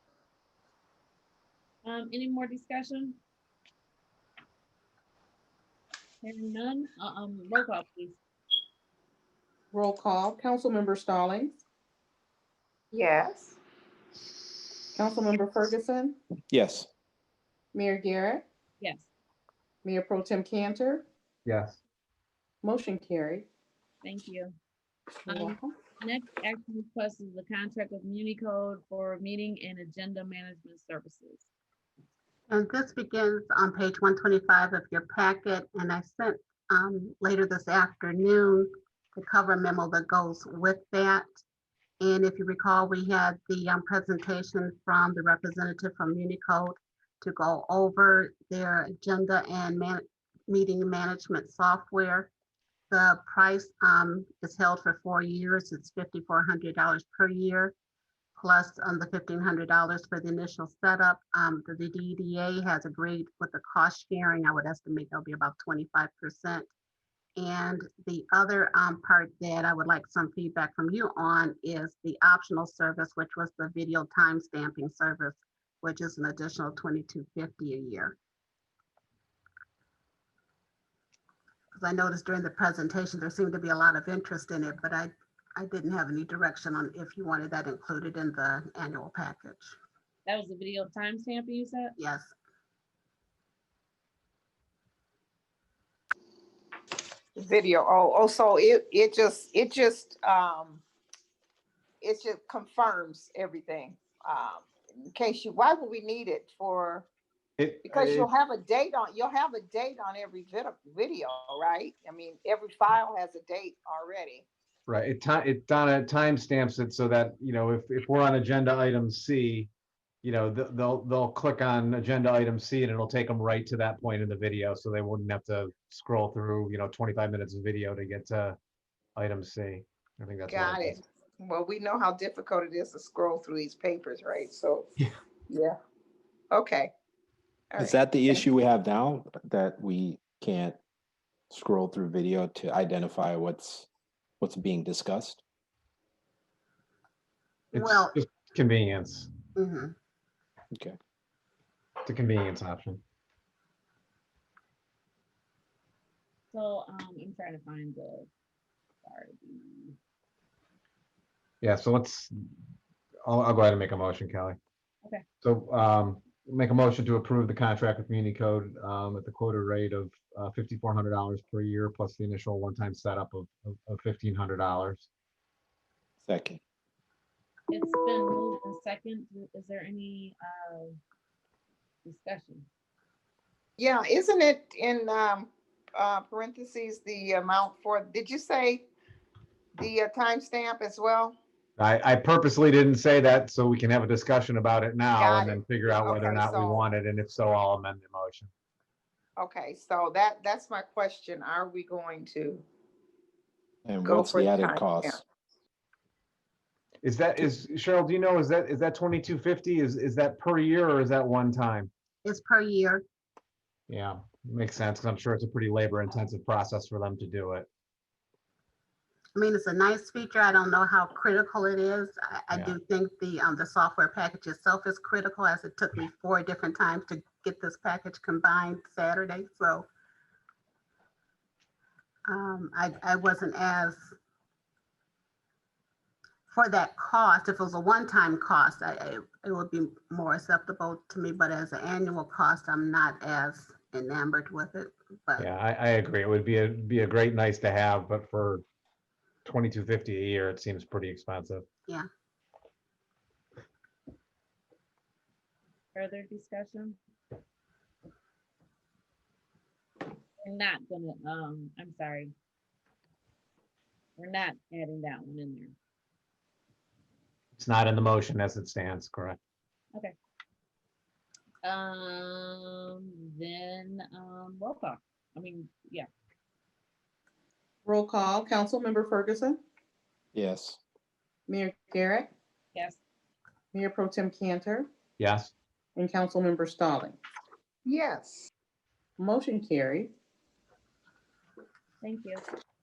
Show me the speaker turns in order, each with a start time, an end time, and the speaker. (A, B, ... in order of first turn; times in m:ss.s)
0:01.8-0:03.2 A
0:06.2-0:08.2 A
0:09.7-0:11.6 B
0:12.9-0:13.6 C
0:14.9-0:16.2 B
0:16.5-0:16.9 D
0:17.7-0:18.4 B
0:18.8-0:19.1 A
0:19.8-0:21.0 B
0:21.4-0:21.8 E
0:22.6-0:23.5 B
0:24.0-0:24.5 A
0:25.3-0:25.6 B
0:25.3-0:31.4 A
0:32.5-0:41.2 F
0:42.0-0:52.3 F
0:52.9-0:57.7 F
0:58.4-1:06.7 F
1:07.4-1:18.2 F
1:21.7-1:29.7 F
1:30.2-1:32.0 A
1:32.0-1:32.3 F
1:37.4-1:40.8 C
1:42.0-1:47.1 C
1:47.6-1:48.3 E
1:47.8-1:54.5 C
1:54.9-1:59.7 E
2:00.2-2:08.6 E
2:09.2-2:11.0 E
2:10.5-2:14.8 C
2:15.5-2:15.8 C
2:16.5-2:16.9 C
2:17.7-2:18.4 C
2:17.8-2:20.8 D
2:21.5-2:23.9 D
2:24.4-2:25.4 D
2:27.7-2:28.2 F
2:27.7-2:29.3 E
2:29.5-2:29.9 F
2:32.0-2:33.0 E
2:36.5-2:38.3 A
2:39.0-2:40.0 A
2:41.6-2:42.3 E
2:43.2-2:44.6 E
2:45.4-2:55.1 E
2:56.2-2:56.6 D
2:57.7-3:01.0 A
3:02.0-3:02.7 A
3:03.8-3:08.9 C
3:09.8-3:11.4 C
3:11.8-3:18.5 E
3:15.1-3:16.9 C
3:19.4-3:22.6 C
3:23.8-3:25.2 D
3:24.0-3:25.2 C
3:27.0-3:31.9 E
3:32.2-3:33.0 F
3:33.9-3:37.7 E
3:39.4-3:49.9 F
3:42.5-3:42.8 E
3:52.3-3:54.1 F
3:56.5-4:05.5 F
4:05.4-4:08.6 E
4:09.4-4:11.6 E
4:15.9-4:17.0 A
4:20.4-4:22.3 A
4:24.2-4:25.7 A
4:27.6-4:29.4 E
4:31.6-4:36.1 A
4:37.8-4:39.6 B
4:40.3-4:40.8 D
4:41.5-4:42.3 B
4:42.7-4:43.0 A
4:43.7-4:44.9 B
4:45.2-4:45.5 E
4:46.0-4:47.2 B
4:47.8-4:48.5 C
4:49.2-4:50.1 B
4:52.0-4:52.4 A